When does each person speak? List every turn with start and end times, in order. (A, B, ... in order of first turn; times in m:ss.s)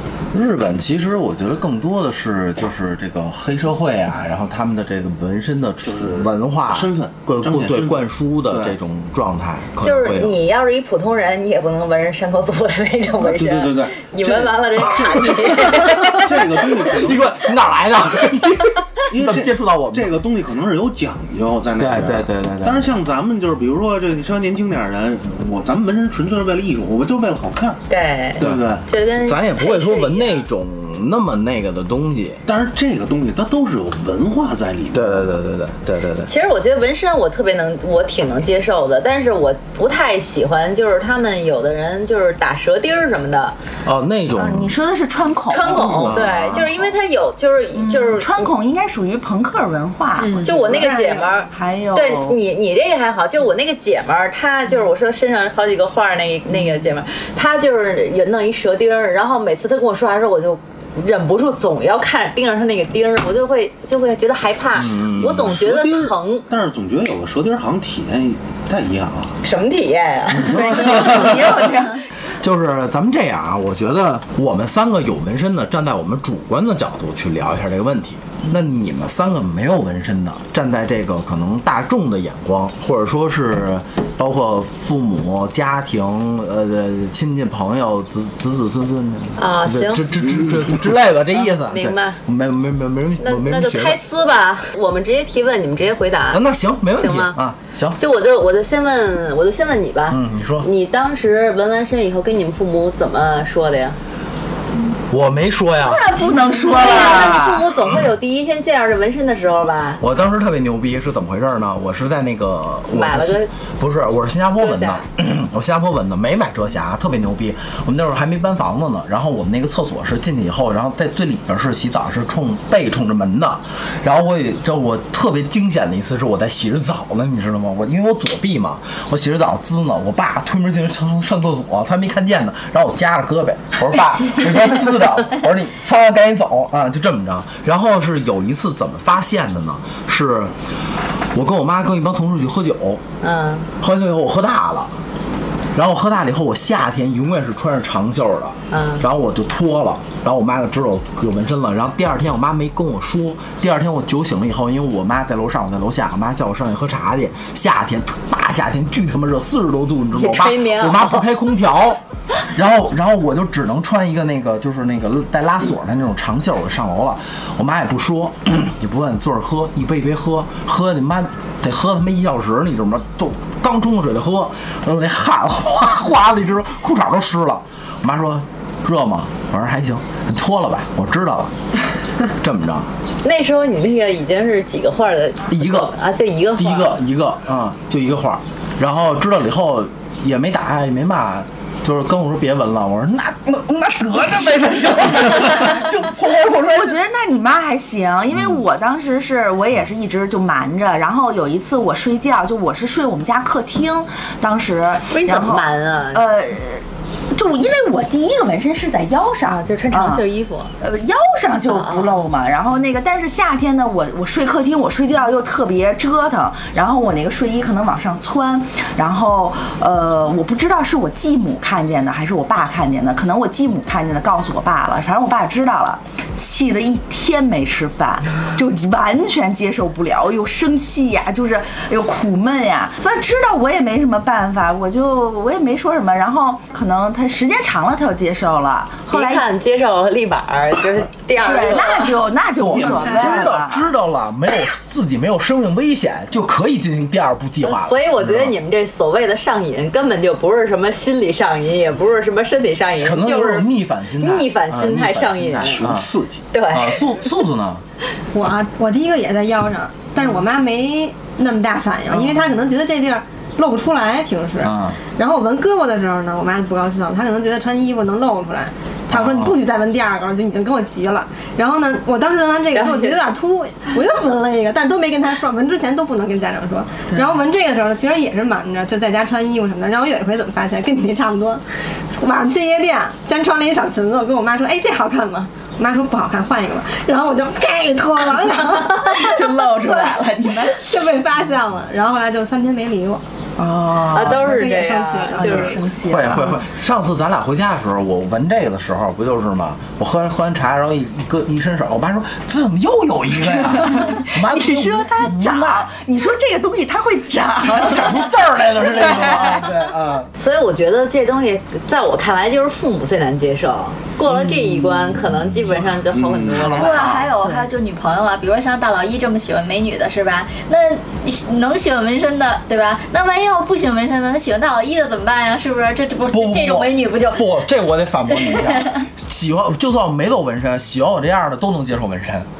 0:00.3-0:10.4 A
0:05.8-0:08.8 B
0:09.8-0:16.3 C
0:13.2-0:17.5 B
0:16.8-0:20.1 A
0:19.1-0:27.8 B
0:21.8-0:22.9 A
0:27.9-0:30.5 C
0:28.4-0:28.8 B
0:28.4-0:32.4 A
0:32.5-0:35.4 B
0:34.9-0:36.3 A
0:36.3-0:43.6 C
0:43.8-0:44.8 A
0:44.4-0:46.2 D
0:45.5-0:48.5 C
0:46.0-0:46.7 A
0:47.8-0:52.4 D
0:50.2-0:51.3 E
0:50.4-1:06.4 C
1:04.8-1:05.6 A
1:05.2-1:09.4 B
1:09.4-1:10.7 C
1:10.3-1:11.9 A
1:10.4-1:12.0 D
1:12.4-1:34.0 A
1:29.4-1:30.4 C
1:31.3-1:32.2 C
1:33.2-1:36.4 C
1:36.3-1:38.0 A
1:37.0-1:37.4 C
1:38.0-1:44.0 C
1:40.1-1:40.7 A
1:45.1-1:46.1 A
1:45.8-1:47.7 D
1:46.6-1:50.0 C
1:46.9-1:47.4 A
1:50.0-2:20.5 A
1:52.9-1:53.5 C
1:54.6-1:55.0 C
2:21.3-2:23.0 A
2:23.2-2:23.7 C
2:23.8-2:24.9 A
2:25.7-3:01.5 A
2:28.7-2:29.0 C
2:40.1-2:41.2 C
3:02.3-3:02.9 A
3:03.2-3:07.0 C
3:05.5-3:06.0 A
3:06.6-3:17.0 A
3:14.9-3:15.4 D
3:16.4-3:30.3 D
3:18.3-3:18.6 A
3:25.1-3:26.3 C
3:29.5-3:30.7 C
3:30.8-3:59.5 D
3:31.7-3:32.2 C
3:59.1-4:02.2 C
4:01.4-4:03.9 D
4:02.7-4:08.6 A
4:02.7-4:03.5 B
4:07.6-4:15.9 C
4:13.0-4:16.1 A
4:15.6-4:16.4 B
4:16.5-4:17.2 C
4:16.7-4:17.8 A
4:18.3-4:41.6 E
4:24.6-4:25.0 A
4:29.1-4:29.6 A
4:32.7-4:33.2 C
4:42.2-4:53.2 E
4:49.0-4:50.9 D
4:53.6-4:54.5 D
4:54.1-4:55.8 C
4:54.2-4:55.8 E
4:55.4-4:56.6 D
4:56.0-5:05.9 A
5:03.5-5:09.7 D
5:07.8-5:10.3 A
5:10.4-5:17.2 C
5:15.1-5:15.6 A
5:16.1-5:16.8 B
5:16.5-5:17.3 A
5:16.7-5:27.5 F
5:26.3-5:32.5 A
5:28.3-5:29.0 F